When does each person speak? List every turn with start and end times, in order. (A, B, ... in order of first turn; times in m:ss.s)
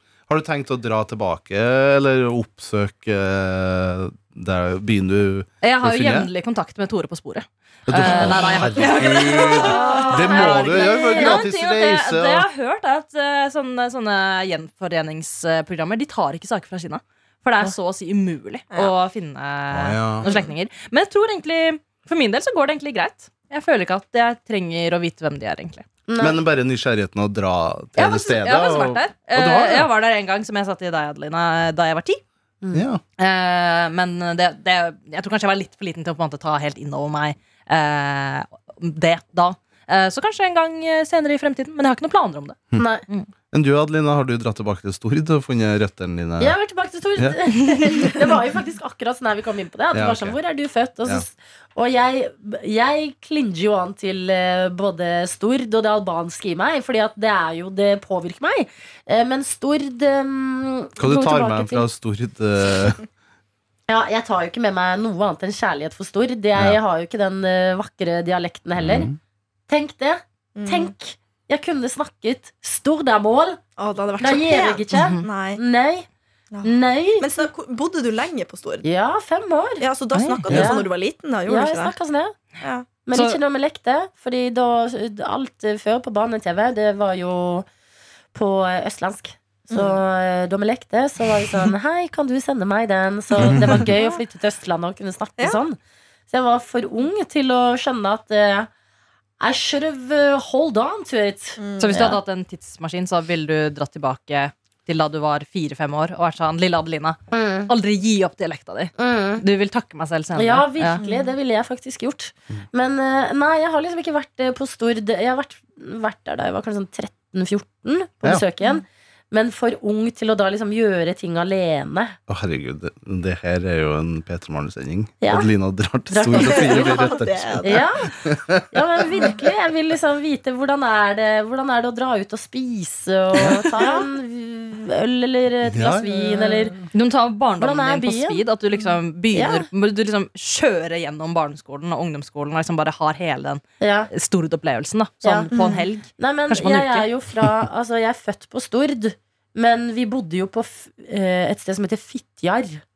0:00.3-0:06.3 A
0:05.6-0:25.8 B
0:07.9-0:12.5 A
0:09.5-0:11.4 C
0:19.7-0:20.3 A
0:20.2-0:20.5 D
0:26.1-0:26.4 C
0:26.2-0:29.9 A
0:28.0-0:32.2 B
0:32.7-0:33.0 A
0:33.2-0:43.3 B
0:42.8-0:43.0 C
0:43.5-0:46.6 A
0:46.4-1:01.9 C
0:47.2-0:48.1 A
0:49.9-0:50.4 A
1:01.0-1:03.0 A
1:03.9-1:09.1 C
1:08.8-1:09.2 A
1:09.7-1:13.6 C
1:10.5-1:10.9 D
1:13.8-1:15.6 D
1:14.2-1:16.1 C
1:14.9-1:15.3 B
1:16.5-1:18.8 D
1:16.6-1:17.4 C
1:18.8-1:19.8 C
1:19.8-1:21.9 D
1:20.1-1:20.4 B
1:20.5-1:20.9 C
1:21.5-1:22.4 C
1:22.6-1:22.9 D
1:23.0-1:27.7 C
1:23.1-1:23.4 B
1:28.3-1:35.8 C
1:29.7-1:30.0 D
1:33.4-1:34.2 D
1:33.4-1:33.9 A
1:36.3-1:38.7 C
1:39.4-1:42.2 C
1:41.6-1:42.0 D
1:41.8-1:51.0 B
1:47.3-1:47.7 C
1:49.0-1:49.4 C
1:50.3-2:02.2 C
1:51.0-1:51.3 D
2:02.3-2:08.7 A
2:05.2-2:05.5 C
2:06.1-2:08.1 C
2:06.3-2:07.8 D
2:08.7-2:16.8 C
2:13.4-2:13.6 A
2:13.8-2:14.0 D
2:15.6-2:16.7 A
2:16.9-2:27.1 B
2:17.6-2:18.4 C
2:19.3-2:19.7 C
2:23.8-2:24.1 C
2:25.2-2:25.5 C
2:25.5-2:25.9 D
2:26.2-2:32.8 C